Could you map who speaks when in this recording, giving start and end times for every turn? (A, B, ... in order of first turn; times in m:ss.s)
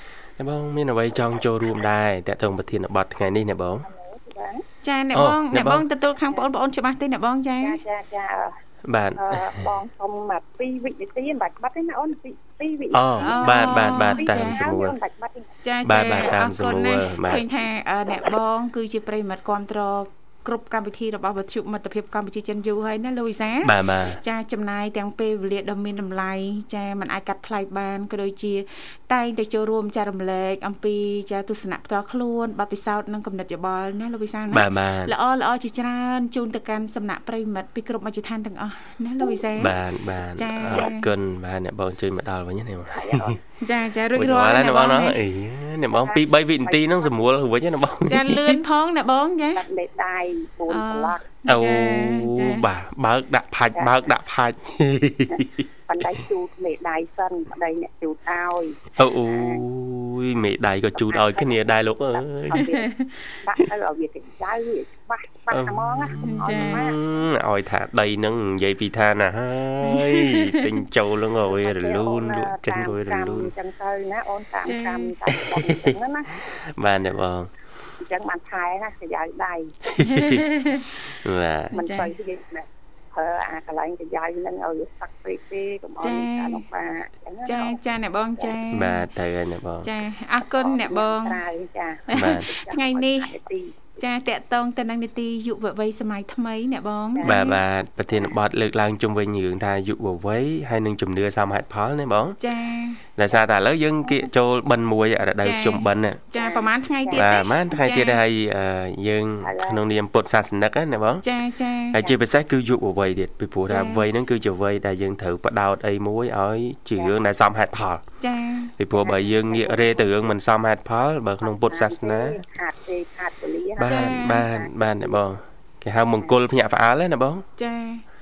0:00.4-0:03.9 A
0:03.8-0:04.6 B
0:04.8-0:07.8 C
0:05.1-0:05.8 A
0:07.6-0:08.6 B
0:08.8-0:09.7 A
0:09.2-0:15.5 B
0:12.9-0:15.0 A
0:13.2-0:14.7 C
0:15.6-0:39.8 C
0:15.8-0:17.4 A
0:23.6-0:24.2 A
0:34.5-0:35.1 A
0:39.5-0:43.4 A
0:40.3-0:41.1 C
0:42.9-0:43.4 B
0:43.6-0:45.2 C
0:44.1-0:48.6 A
0:45.9-0:47.2 B
0:48.1-0:49.6 C
0:49.5-0:51.2 B
0:50.7-0:52.6 C
0:51.5-0:55.7 A
0:55.3-0:59.6 B
0:59.0-1:02.6 A
1:00.9-1:07.0 B
1:02.5-1:03.2 C
1:05.5-1:13.5 A
1:06.2-1:06.8 C
1:09.8-1:10.7 C
1:11.4-1:16.4 B
1:14.6-1:15.1 C
1:15.3-1:17.5 A
1:18.0-1:19.8 B
1:19.9-1:20.4 A
1:20.0-1:20.9 C
1:21.1-1:21.8 A
1:21.7-1:27.8 B
1:21.7-1:22.1 C
1:26.0-1:26.6 C
1:27.4-1:29.1 C
1:28.7-1:29.9 A
1:29.8-1:31.4 C
1:30.4-1:34.0 B
1:32.1-1:33.3 C
1:32.1-1:32.5 A
1:34.0-1:37.6 C
1:37.1-1:37.6 B
1:37.2-1:42.4 A
1:38.1-1:38.4 B
1:42.4-1:43.0 C
1:43.2-1:46.2 A
1:45.4-1:48.2 C
1:46.3-1:47.3 B
1:47.1-1:51.2 A
1:49.4-1:49.8 B
1:51.2-1:52.1 C
1:51.9-1:58.0 A
1:53.7-1:54.0 C
1:58.2-1:58.7 C
1:58.8-2:02.4 A
1:58.9-2:00.1 B
2:01.4-2:05.2 B
2:03.8-2:07.5 A
2:03.8-2:04.4 C
2:07.6-2:08.0 C